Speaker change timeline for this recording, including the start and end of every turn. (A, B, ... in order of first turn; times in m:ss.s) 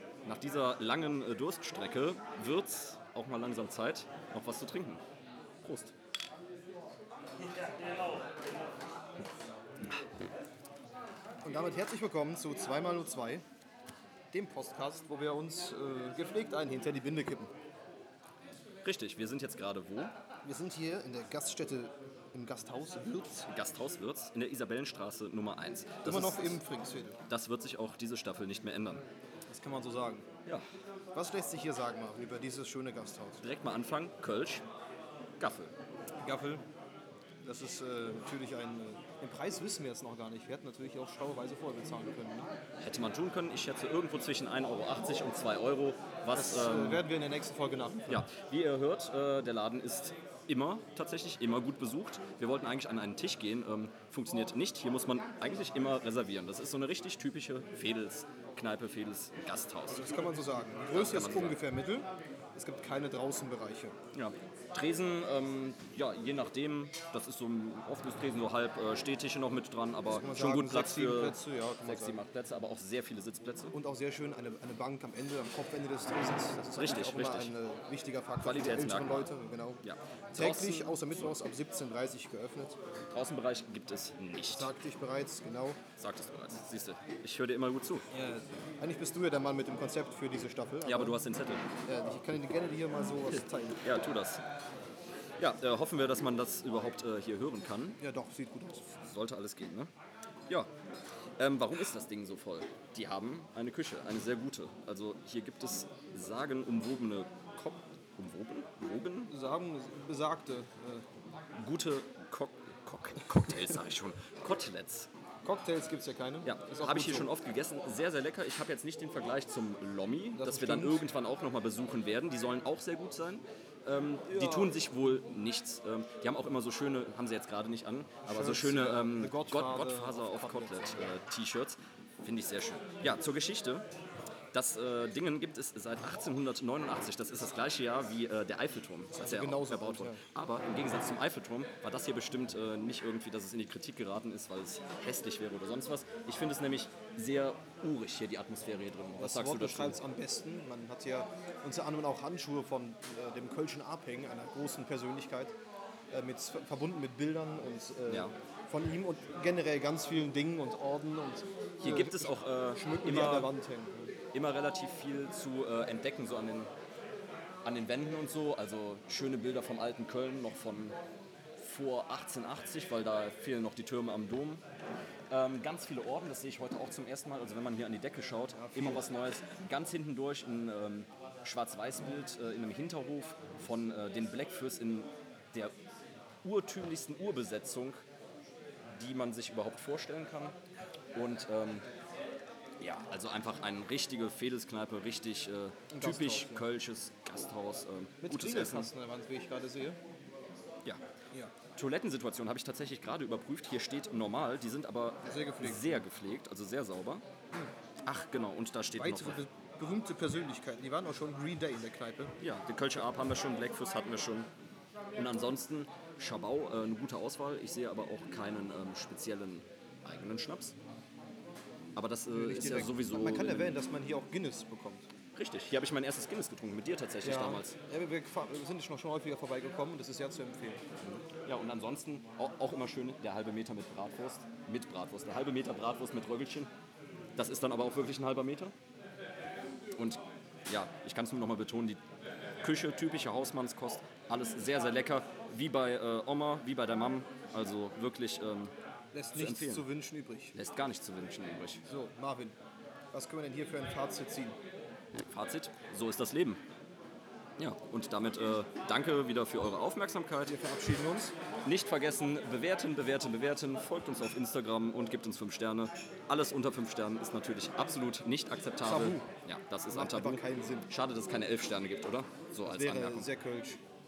0:00.2-0:05.0 A
0:05.6-0:05.9 A
0:11.4-0:13.4 B
0:14.3-0:17.5 B
0:18.8-0:20.1 A
0:20.4-0:23.5 B
0:23.5-0:26.6 A
0:26.0-0:27.2 B
0:27.3-0:29.0 A
0:29.5-0:30.3 B
0:31.1-0:33.4 B
0:33.4-0:34.6 A
0:35.4-0:35.7 A
0:36.2-0:36.6 B
0:37.4-0:42.5 B
0:42.8-0:47.0 A
0:46.3-0:48.3 B
0:48.1-1:00.0 A
0:59.9-1:04.0 B
1:00.9-1:01.6 A
1:04.1-1:13.8 A
1:10.0-1:12.2 B
1:13.7-1:19.8 B
1:16.8-1:17.6 A
1:18.4-1:19.3 A
1:19.8-1:21.2 A
1:20.3-1:22.8 B
1:23.1-1:24.7 A
1:24.5-1:25.8 B
1:26.0-1:28.1 A
1:28.1-1:31.2 B
1:30.8-1:31.6 A
1:31.8-1:33.8 B
1:33.8-1:34.4 A
1:35.4-1:38.0 A
1:38.0-1:38.9 B
1:38.9-1:39.9 A
1:41.4-1:49.3 A
1:49.3-1:51.0 B
1:51.6-1:55.1 A
1:55.4-1:57.3 B
1:56.4-2:13.9 A
2:00.4-2:01.0 B
2:04.3-2:04.8 B
2:08.3-2:11.1 B
2:14.5-2:30.0 A
2:19.1-2:20.2 B
2:29.2-2:35.6 B
2:36.1-2:44.1 B
2:38.1-2:38.4 A
2:41.8-2:43.5 A
2:44.3-2:46.7 A
2:47.6-2:51.0 A
2:51.6-2:54.6 A
2:55.3-3:05.7 A
2:58.5-2:59.1 B
3:06.4-3:08.0 A
3:08.9-3:10.6 A
3:11.2-3:11.9 A
3:12.8-3:18.9 A
3:15.9-3:16.7 B
3:18.2-3:20.0 B
3:21.8-3:27.2 A
3:25.3-3:26.0 B
3:28.0-3:29.4 A
3:29.0-3:32.4 B
3:32.4-3:34.5 A
3:35.1-3:40.8 A
3:42.0-3:43.8 A
3:42.3-3:45.1 B
3:45.4-3:47.8 A
3:47.2-3:50.8 B
3:51.0-3:56.7 A
3:57.4-3:58.7 A
4:00.0-4:02.0 A
4:02.6-4:08.7 A
4:09.1-4:10.6 B
4:09.3-4:09.9 A
4:10.5-4:11.8 A
4:11.9-4:12.6 B
4:13.1-4:14.6 B
4:15.2-4:16.6 A
4:17.6-4:20.6 A
4:20.5-4:21.3 B
4:21.6-4:33.3 A
4:28.8-4:29.3 B
4:29.9-4:30.9 B
4:32.6-4:33.8 B